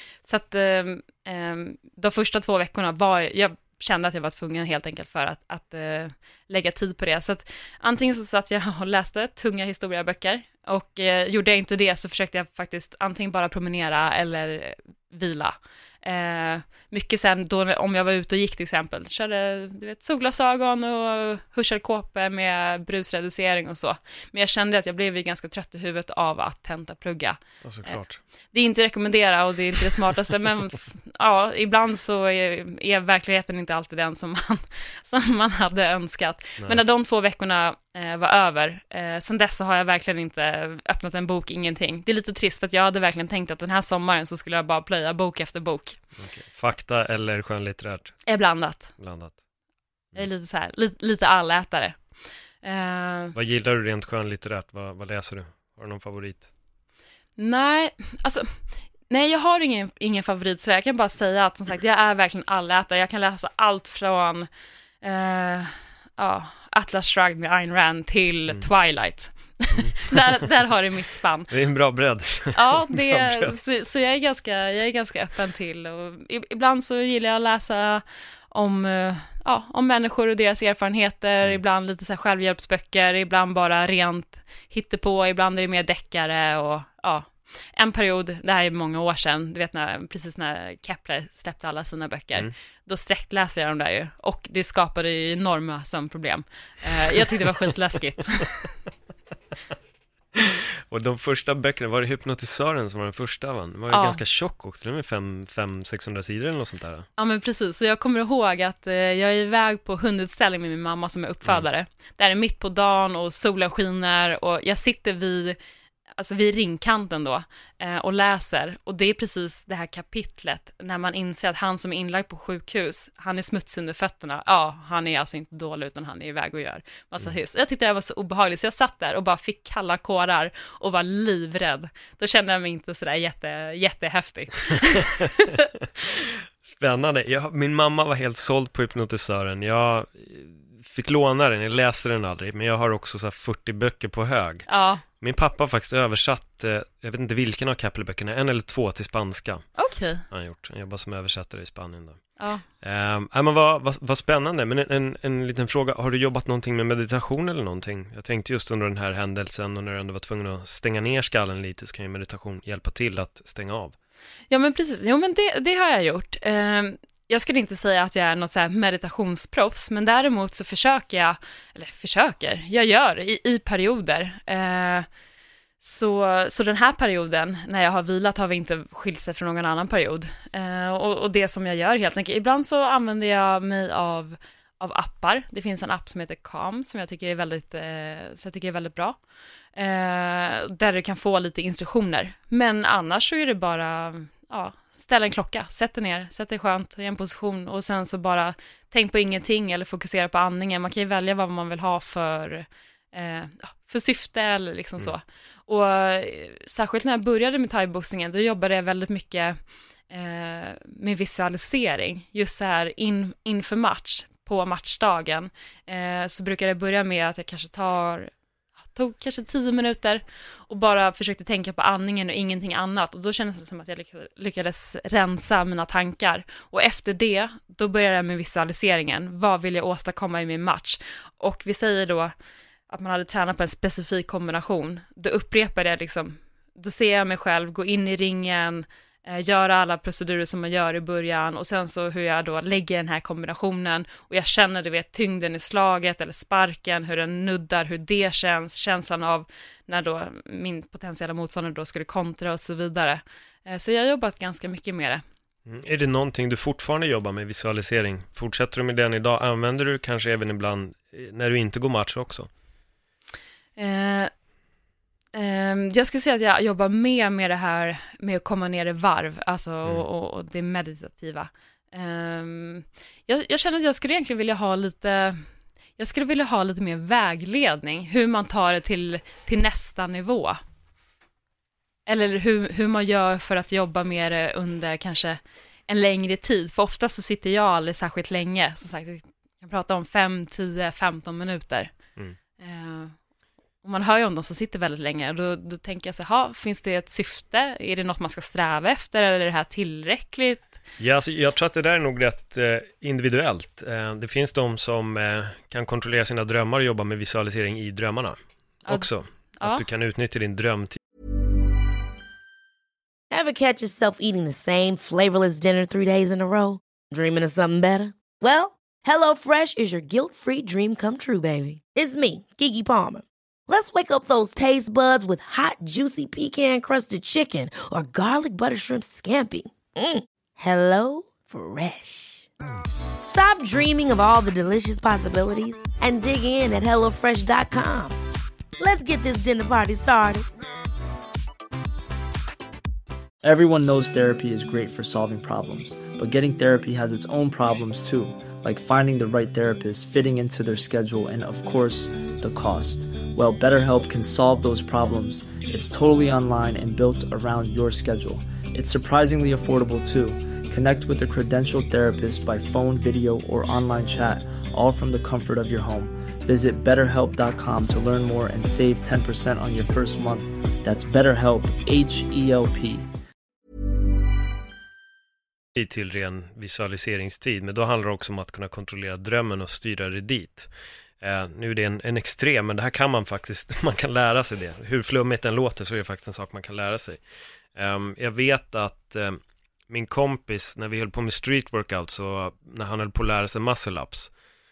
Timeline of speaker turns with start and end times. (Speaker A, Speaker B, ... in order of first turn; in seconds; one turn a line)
Speaker A: 0.2-28.0
Speaker B: 27.6-28.2
Speaker A: 28.5-46.0
Speaker B: 46.2-48.2
Speaker A: 48.3-48.9
Speaker B: 49.0-49.4
Speaker A: 50.1-52.0
Speaker A: 52.6-53.3
Speaker B: 53.3-56.5
Speaker A: 57.4-58.5
Speaker A: 59.1-64.5
Speaker A: 65.0-71.5
Speaker B: 69.7-70.2
Speaker B: 71.5-73.5
Speaker A: 72.5-98.7
Speaker B: 100.3-107.1
Speaker A: 103.9-104.2
Speaker A: 107.2-115.6
Speaker A: 116.2-135.6
Speaker B: 136.2-144.7
Speaker A: 144.7-145.0
Speaker B: 145.2-149.7
Speaker A: 149.8-150.2
Speaker B: 150.3-164.0
Speaker A: 152.4-152.6
Speaker A: 164.5-175.1
Speaker A: 175.8-189.2
Speaker A: 189.8-209.6
Speaker A: 210.1-218.3
Speaker A: 218.9-232.3
Speaker A: 232.9-255.2
Speaker B: 255.7-262.5
Speaker A: 263.8-264.3
Speaker A: 265.3-275.5
Speaker A: 276.0-280.6
Speaker A: 282.1-291.9
Speaker A: 292.6-293.1
Speaker A: 293.8-300.7
Speaker B: 301.0-311.0
Speaker A: 309.6-309.8
Speaker C: 313.3-332.5
Speaker C: 333.2-338.2
Speaker C: 338.8-340.4
Speaker D: 343.4-373.1
Speaker B: 375.8-387.2
Speaker B: 387.8-394.3